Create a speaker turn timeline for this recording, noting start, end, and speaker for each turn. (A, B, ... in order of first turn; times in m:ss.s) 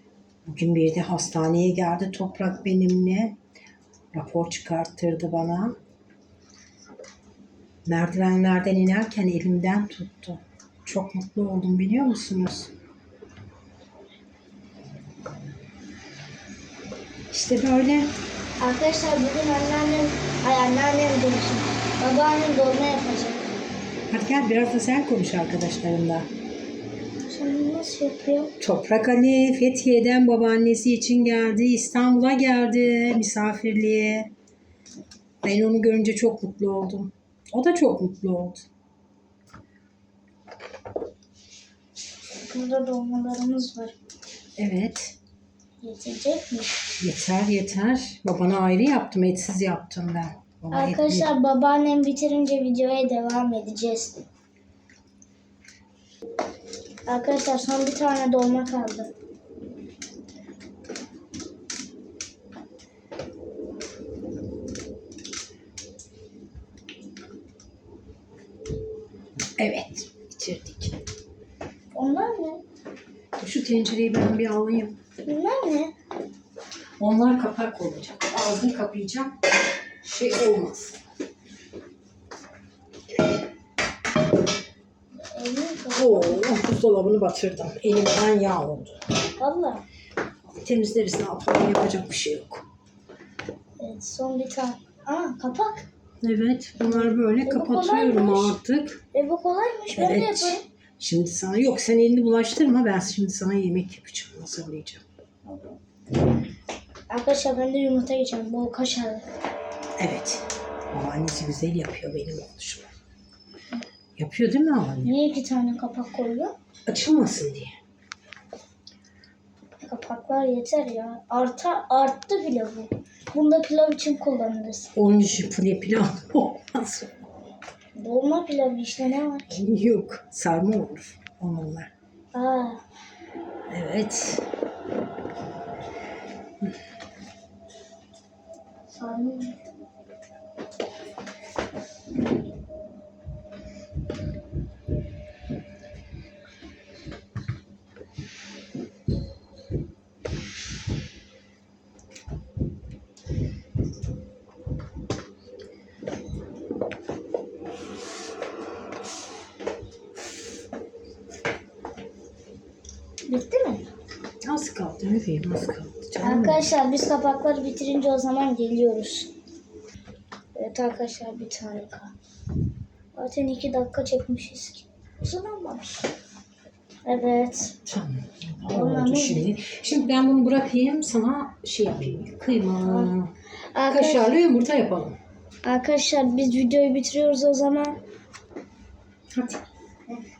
0:00.4-0:03.4 A
0:04.1-0:05.8 A
0:07.8-0:12.7 A
0:17.3-0:18.1 A
0:18.6-0:23.4 B
0:24.1-0:26.3 A
0:27.2-0:28.5 B
0:28.6-0:34.3 A
0:35.4-0:38.6 A
0:42.4-0:43.9 B
0:44.6-0:45.2 A
0:45.8-0:46.8 B
0:47.0-0:51.3 A
0:50.7-0:54.2 B
0:57.1-0:59.1 B
1:09.6-1:11.0 A
1:11.9-1:12.6 B
1:13.4-1:15.0 A
1:15.2-1:15.9 B
1:17.0-1:19.4 A
1:20.0-1:21.0 A
1:25.2-1:26.5 B
1:25.9-1:29.0 A
1:29.4-1:29.8 B
1:30.6-1:32.6 A
1:33.8-1:35.9 B
1:36.2-1:39.0 A
1:36.8-1:38.6 B
1:39.1-1:40.6 B
1:39.9-1:45.0 A
1:45.5-1:45.8 B
1:47.1-1:49.2 B
1:50.0-1:52.9 A
1:54.2-1:55.1 A
1:55.0-1:56.5 B
1:56.9-1:57.7 A
1:59.8-2:04.9 B
2:04.9-2:07.1 A
2:07.9-2:09.6 B
2:09.5-2:11.9 A
2:12.3-2:12.8 B
2:13.7-2:14.4 A
2:18.9-2:19.6 B
2:43.3-2:43.9 B
2:44.4-2:46.7 A
2:46.2-2:49.3 B
2:50.5-2:52.1 B
2:53.1-2:56.0 B
2:57.0-2:57.8 B
2:57.8-3:03.3 A
2:58.7-2:59.4 B
3:02.8-3:03.1 B
3:03.7-3:04.3 B
3:03.9-3:05.2 A
3:05.6-3:08.0 B
3:09.3-3:10.2 A